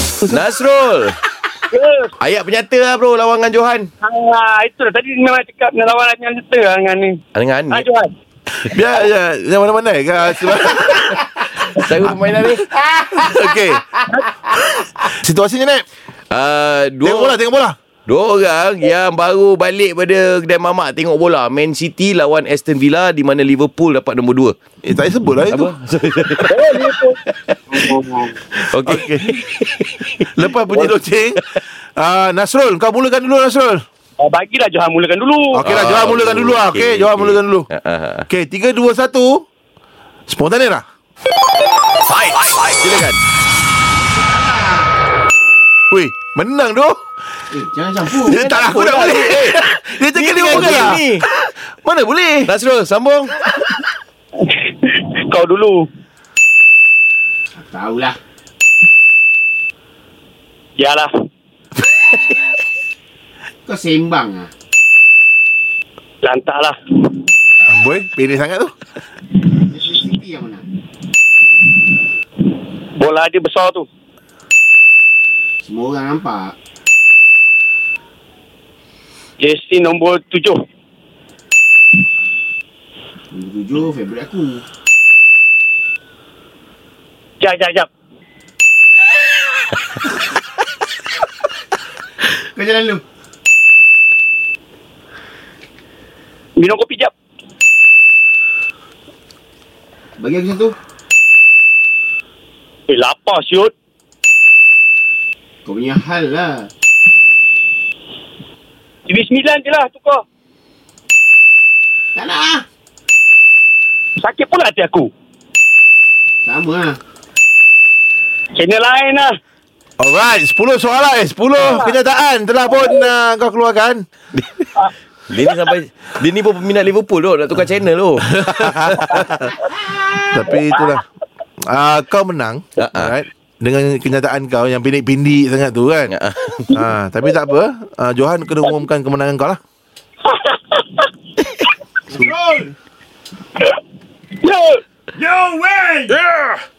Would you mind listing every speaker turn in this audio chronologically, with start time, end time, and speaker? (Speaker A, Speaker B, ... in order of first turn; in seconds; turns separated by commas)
Speaker A: 0.3-1.2, Speaker B: 1.7-2.1, Speaker A: 2.2-3.9, Speaker B: 4.0-7.2, Speaker A: 7.4-7.9, Speaker B: 7.7-8.1, Speaker C: 8.6-11.4, Speaker A: 11.6-13.4, Speaker C: 12.8-15.9, Speaker A: 16.3-17.4, Speaker C: 17.0-17.8, Speaker A: 18.1-24.6, Speaker C: 24.8-25.7, Speaker A: 25.5-27.8, Speaker B: 26.5-27.2, Speaker B: 27.7-28.3, Speaker A: 28.6-30.9, Speaker C: 28.8-29.4, Speaker C: 30.4-33.8, Speaker B: 34.2-35.6, Speaker C: 35.5-37.7, Speaker A: 35.6-38.3, Speaker C: 38.3-39.5, Speaker C: 40.3-40.8, Speaker A: 42.0-43.2, Speaker C: 45.9-47.0, Speaker D: 47.5-48.4, Speaker C: 48.2-52.5, Speaker A: 48.3-51.2, Speaker A: 52.5-53.4, Speaker B: 54.4-55.9, Speaker D: 57.5-58.2, Speaker B: 60.8-61.1, Speaker D: 63.6-64.5, Speaker B: 66.2-67.1, Speaker C: 67.7-68.7, Speaker D: 69.5-70.7, Speaker B: 73.0-73.9, Speaker D: 75.6-76.6, Speaker B: 79.4-80.6, Speaker D: 83.3-84.6, Speaker B: 87.4-87.9, Speaker D: 92.5-93.0, Speaker B: 96.6-97.1, Speaker D: 100.2-100.8, Speaker B: 102.9-103.7, Speaker D: 105.7-106.7, Speaker B: 109.1-110.2, Speaker D: 112.2-112.7, Speaker B: 114.2-115.1, Speaker D: 116.4-117.0, Speaker B: 118.5-119.3, Speaker C: 120.0-124.0, Speaker B: 121.6-121.9, Speaker A: 124.3-124.7, Speaker A: 125.3-129.6, Speaker C: 128.5-128.8, Speaker C: 130.2-131.0, Speaker C: 131.7-136.2, Speaker A: 132.8-133.1, Speaker A: 136.1-136.7, Speaker C: 136.7-139.6, Speaker B: 140.3-141.1, Speaker C: 142.2-142.6, Speaker B: 144.4-144.8, Speaker C: 145.2-145.5